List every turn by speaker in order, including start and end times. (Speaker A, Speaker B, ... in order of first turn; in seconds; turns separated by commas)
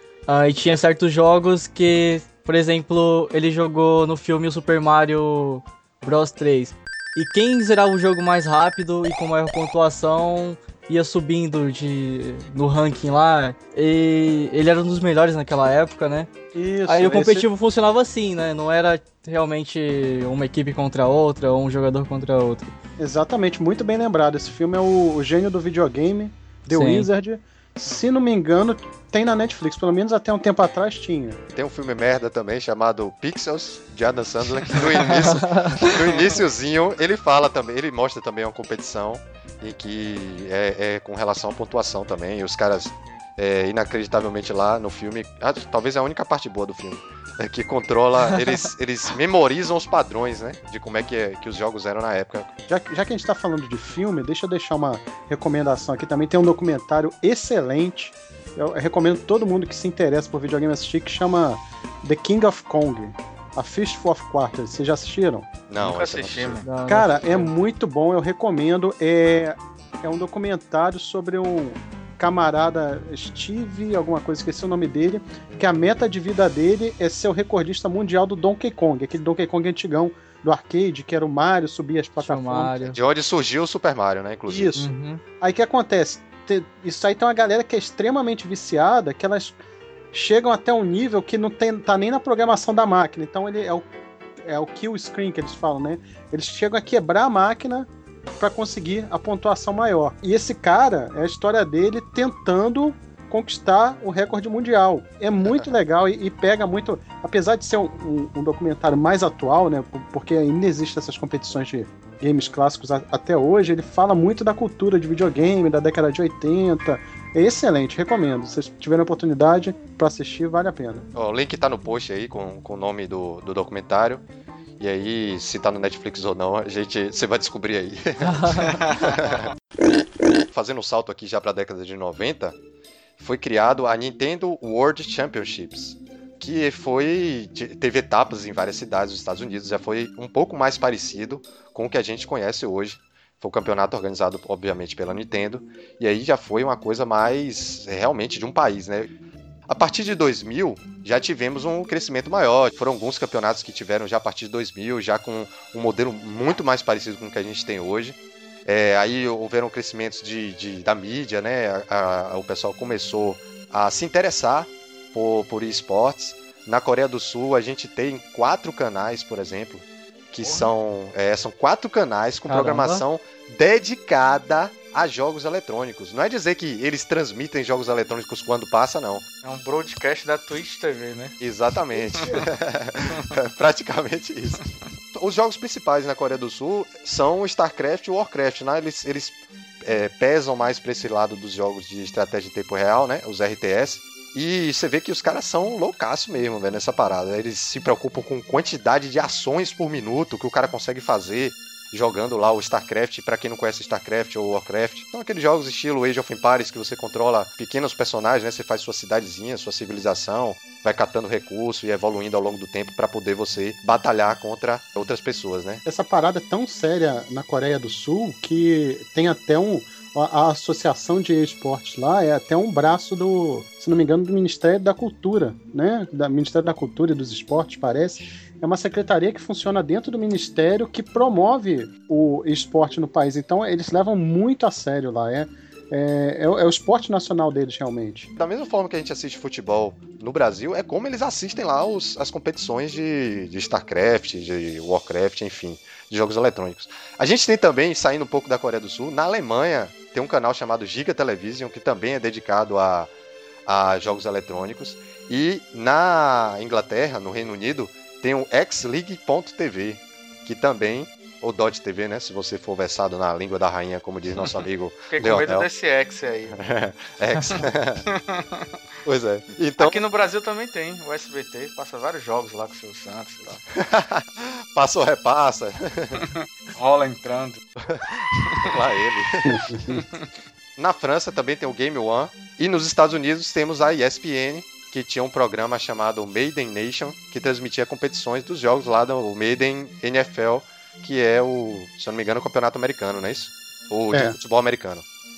Speaker A: 0.3-16.3, Speaker B: 16.5-17.5, Speaker A: 16.9-22.7, Speaker B: 23.0-31.4, Speaker A: 26.7-27.1, Speaker C: 31.5-52.5, Speaker A: 35.1-35.8, Speaker D: 35.9-36.4, Speaker B: 52.7-65.5, Speaker C: 65.7-66.6, Speaker D: 65.8-66.7, Speaker A: 66.6-67.5, Speaker B: 66.9-82.9, Speaker A: 82.2-83.0, Speaker C: 82.9-84.7, Speaker B: 84.5-84.9, Speaker A: 84.8-85.2, Speaker B: 85.4-89.6, Speaker B: 90.1-93.9, Speaker B: 94.4-121.1, Speaker C: 121.1-124.2, Speaker C: 124.8-129.5, Speaker A: 128.2-128.8, Speaker D: 128.9-129.4, Speaker C: 130.5-132.6, Speaker C: 133.2-149.1, Speaker C: 149.7-179.2, Speaker A: 172.5-173.0, Speaker D: 179.4-181.4, Speaker C: 181.4-215.8, Speaker B: 215.8-238.3, Speaker C: 238.3-253.1, Speaker C: 253.7-265.7, Speaker D: 264.4-266.6, Speaker C: 266.5-268.0, Speaker D: 267.5-268.7, Speaker C: 269.0-270.0, Speaker D: 269.8-273.6, Speaker C: 273.7-276.2, Speaker D: 276.1-277.6, Speaker C: 277.9-279.7, Speaker D: 278.4-278.8, Speaker B: 279.4-280.0, Speaker D: 279.9-280.3, Speaker C: 280.8-295.0